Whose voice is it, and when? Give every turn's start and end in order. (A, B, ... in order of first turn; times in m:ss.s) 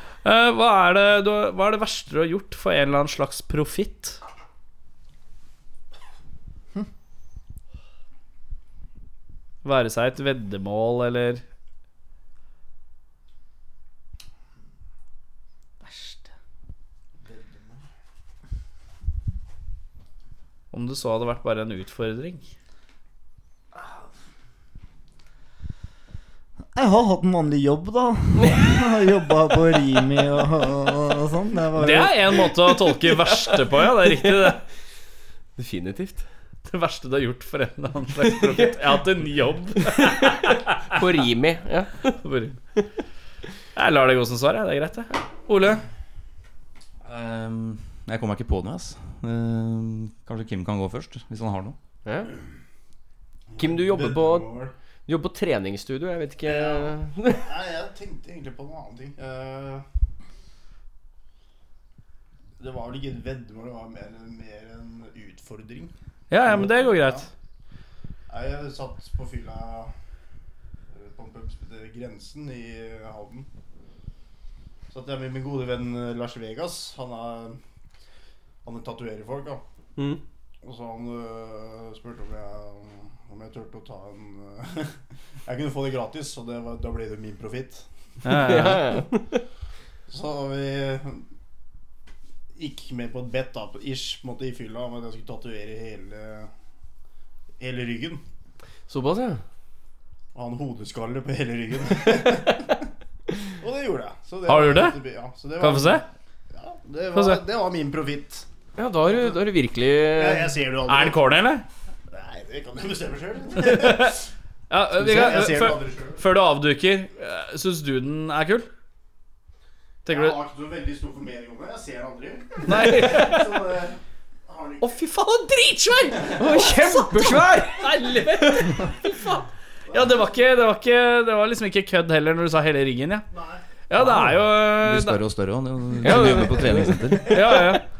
0:00.2-0:04.2 A
0:09.6-0:11.4 A
0:15.8-0:16.2 A
0:20.7-0:22.4 A
0:23.8-0:24.0 B
0:26.8-0:32.5 B
0:28.4-0:28.7 C
0:31.8-0:34.6 A
0:32.9-0:34.6 C
0:35.6-0:36.2 C
0:36.7-0:40.9 A
0:38.2-0:38.8 C
0:39.8-0:40.4 C
0:40.9-0:42.2 C
0:42.2-0:42.6 A
0:43.8-0:45.8 A
0:47.0-0:51.8 D
0:52.0-0:52.3 C
0:53.5-0:54.7 E
0:53.6-0:54.5 C
0:55.1-0:57.5 C
0:56.4-0:59.8 E
1:02.6-1:05.9 E
1:06.3-1:07.3 A
1:06.4-1:07.3 E
1:08.3-1:09.9 E
1:10.9-1:13.5 E
1:14.9-1:17.6 E
1:18.6-1:19.6 E
1:20.6-1:27.8 E
1:28.2-1:28.9 A
1:28.4-1:29.4 C
1:30.1-1:31.2 E
1:32.6-1:36.5 E
1:37.6-1:38.2 E
1:38.9-1:39.4 C
1:40.4-1:42.8 E
1:43.6-1:48.5 E
1:44.5-1:45.0 A
1:45.6-1:46.0 A
1:47.1-1:47.4 A
1:48.8-1:50.6 C
1:50.1-1:51.2 E
1:50.9-1:51.6 A
1:52.1-1:54.2 E
1:53.6-1:54.2 A
1:54.7-1:58.7 A
1:55.0-1:56.2 E
2:00.1-2:00.4 A
2:00.1-2:04.9 E
2:02.6-2:03.6 A
2:04.8-2:13.2 A
2:06.4-2:08.7 C
2:13.3-2:13.6 E
2:13.9-2:15.2 A
2:14.0-2:17.4 D
2:16.0-2:17.4 C
2:17.3-2:17.8 A